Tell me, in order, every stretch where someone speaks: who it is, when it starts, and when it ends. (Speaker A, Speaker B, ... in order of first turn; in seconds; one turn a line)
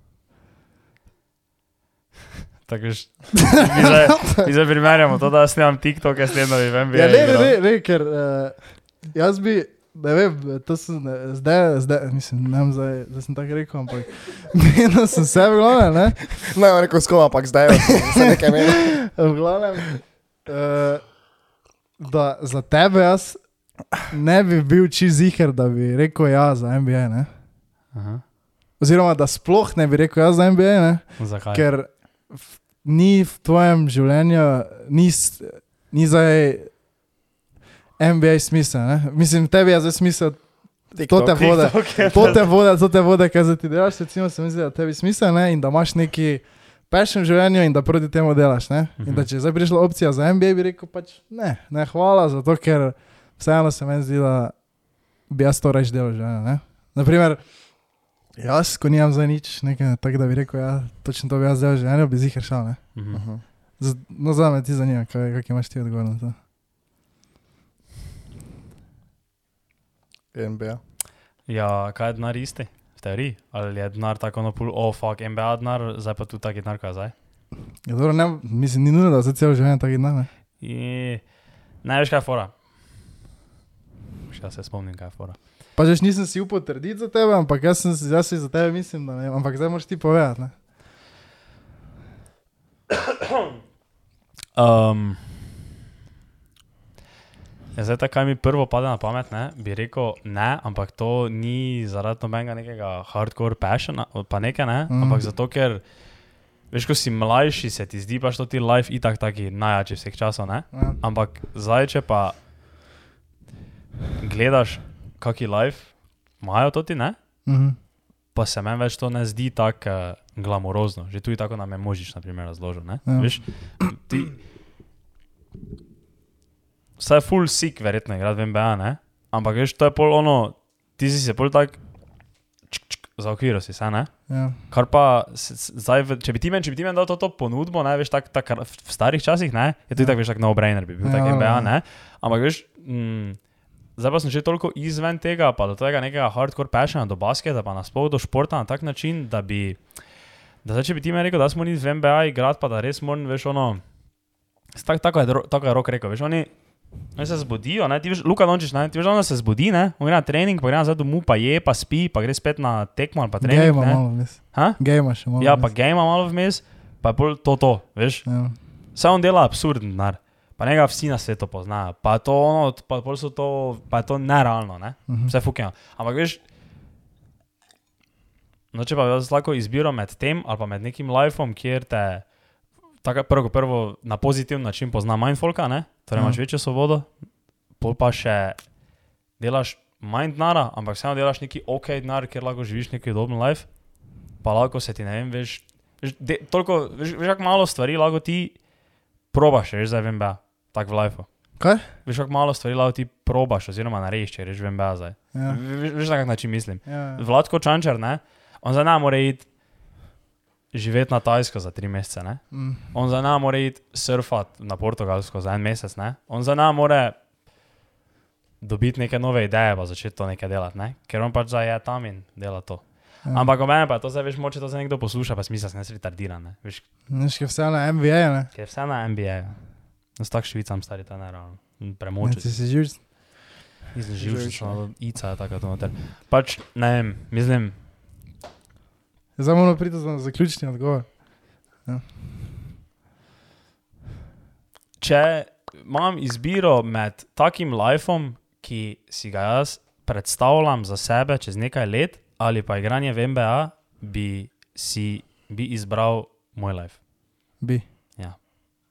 Speaker A: 2.7-7.5
Speaker B: 6.9-16.4
Speaker C: 16.4-18.9
Speaker B: 17.9-21.2
Speaker B: 22.0-23.4
Speaker B: 24.0-27.3
Speaker A: 27.9-28.2
Speaker B: 28.8-36.7
Speaker A: 31.2-31.6
Speaker B: 38.0-54.5
Speaker C: 41.0-42.5
Speaker A: 41.3-42.5
Speaker A: 49.0-49.3
Speaker B: 55.3-57.4
Speaker B: 58.4-62.8
Speaker A: 63.0-63.2
Speaker C: 63.1-63.4
Speaker B: 63.8-66.4
Speaker C: 70.3-70.8
Speaker A: 71.5-77.1
Speaker B: 77.8-80.3
Speaker A: 80.6-81.2
Speaker A: 81.8-82.5
Speaker A: 84.3-85.4
Speaker B: 85.8-90.5
Speaker A: 94.5-95.4
Speaker A: 97.7-105.8
Speaker B: 104.9-105.2
Speaker A: 106.7-112.3
Speaker B: 110.7-111.0
Speaker A: 114.2-117.2
Speaker B: 117.5-117.8
Speaker A: 118.3-124.3
Speaker B: 123.0-123.8
Speaker A: 127.0-131.8
Speaker A: 132.7-134.1
Speaker B: 134.3-134.6
Speaker A: 134.7-143.4
Speaker B: 141.0-141.7
Speaker A: 143.9-149.8
Speaker A: 150.6-153.8
Speaker A: 154.7-156.5
Speaker A: 157.1-164.8
Speaker B: 163.4-165.7
Speaker A: 165.3-168.2
Speaker B: 168.2-168.5
Speaker A: 168.9-176.4
Speaker B: 175.1-175.3
Speaker A: 178.7-182.2
Speaker A: 183.0-187.1
Speaker B: 186.1-186.4
Speaker A: 187.8-188.6
Speaker A: 189.4-193.7
Speaker A: 194.4-198.6
Speaker A: 199.3-201.3
Speaker B: 201.6-201.9
Speaker A: 202.0-209.5
Speaker B: 205.3-205.6
Speaker B: 206.8-207.2
Speaker A: 210.7-217.2
Speaker B: 212.5-212.8
Speaker A: 218.6-226.8
Speaker B: 227.1-228.5
Speaker A: 228.5-229.6
Speaker A: 230.2-232.5
Speaker B: 232.2-233.0
Speaker A: 233.9-237.7
Speaker C: 234.2-234.8
Speaker B: 239.4-241.3
Speaker A: 245.0-257.0
Speaker A: 258.2-258.5